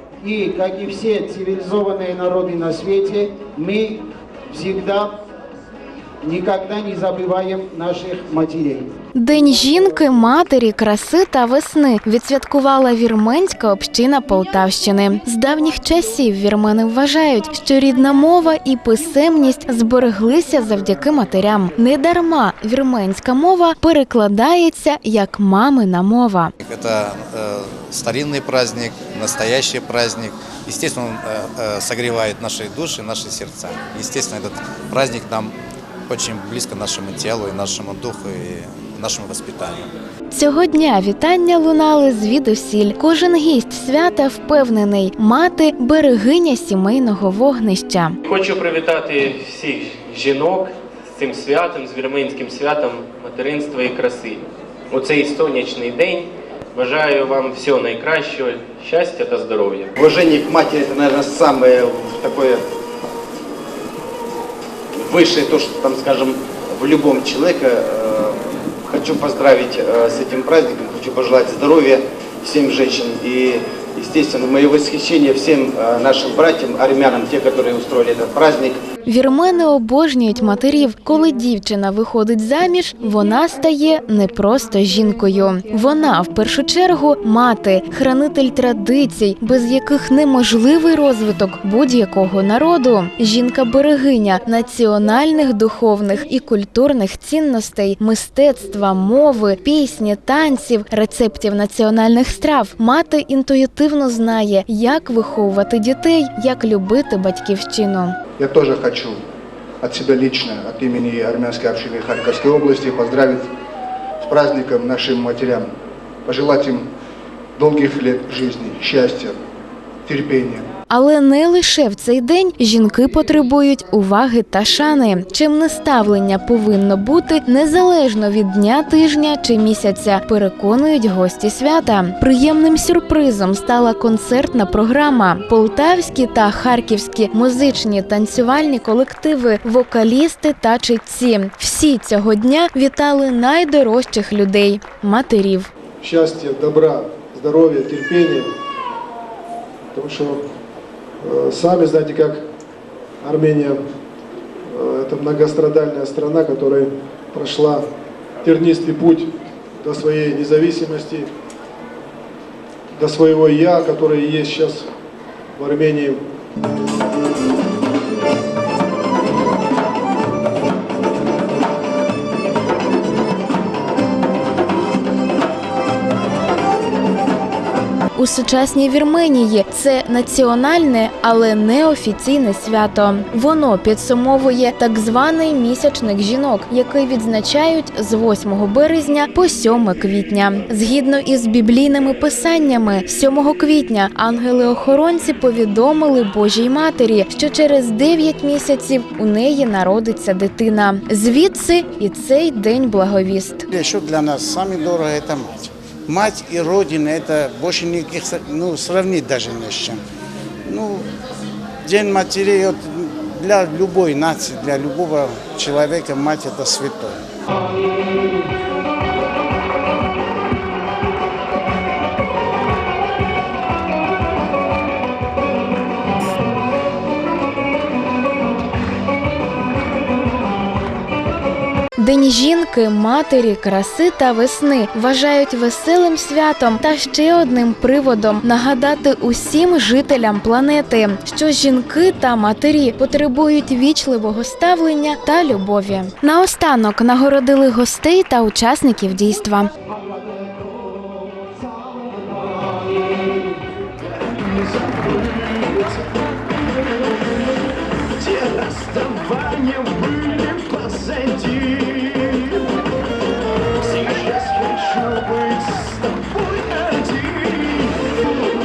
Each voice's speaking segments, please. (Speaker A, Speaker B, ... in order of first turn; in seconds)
Speaker A: 0.2-5.2, 6.2-8.9
Speaker B: 9.1-26.5, 40.3-48.1, 79.0-108.2, 120.9-145.7, 178.1-203.7, 232.0-249.7
Speaker C: 26.6-35.5, 36.1-39.9
Speaker D: 48.2-59.9
Speaker E: 60.0-62.6, 65.0-68.4, 68.9-78.8
Speaker F: 108.4-109.2, 109.8-113.5, 114.2-115.7, 116.2-116.8, 117.5-119.4, 120.0-120.7
Speaker G: 146.0-148.5, 149.9-150.4, 151.2-152.4, 153.2-153.8, 154.7-157.8, 158.4-159.3, 159.8-161.3, 163.0-164.9, 165.6-166.2
Speaker H: 203.7-210.0, 210.6-211.1, 211.8-217.2
Speaker I: 258.2-262.2, 263.9-265.8, 266.3-267.6